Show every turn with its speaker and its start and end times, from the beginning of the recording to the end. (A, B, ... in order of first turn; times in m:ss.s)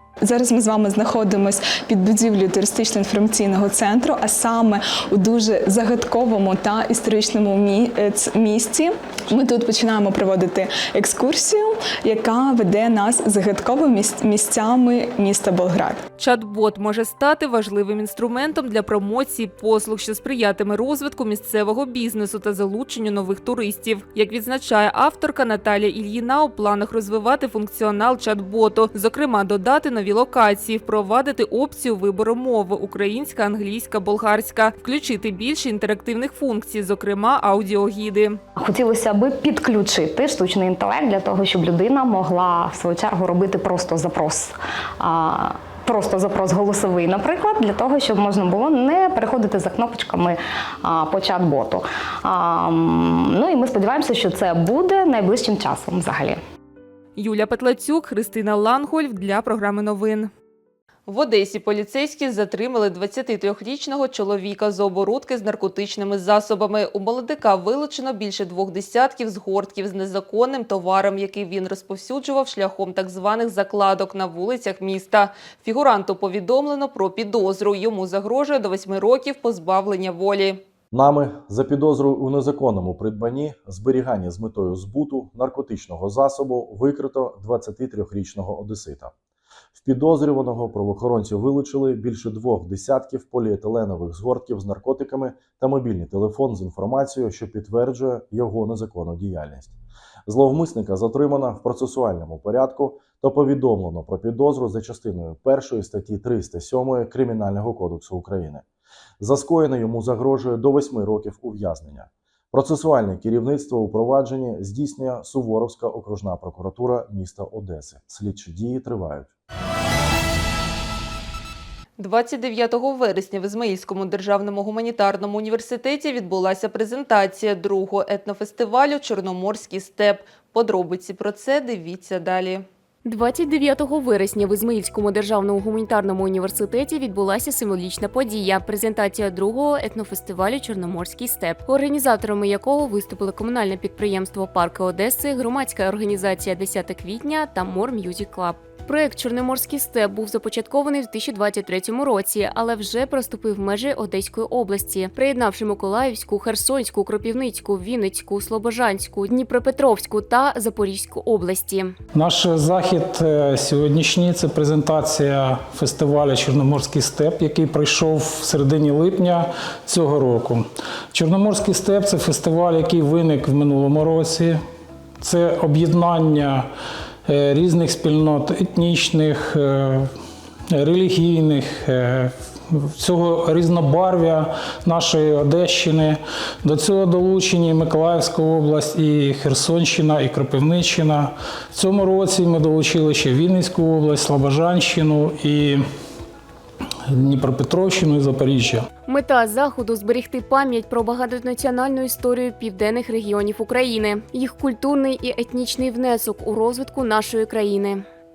0:00.2-0:16.0 A
0:16.2-0:38.4 B
0:38.6-0:56.4 C
0:57.2-1:00.3 B
1:01.1-1:20.6 B
1:20.9-1:29.1 D
1:29.8-1:39.7 D
1:40.3-1:48.6 D
1:49.2-1:59.3 D
2:02.0-2:12.6 B
2:13.0-2:41.9 E
2:42.1-2:54.6 F
2:55.2-2:56.7 F
2:57.2-3:00.1 F
3:00.7-3:15.8 F
3:17.1-3:18.8 F
3:19.1-3:28.0 E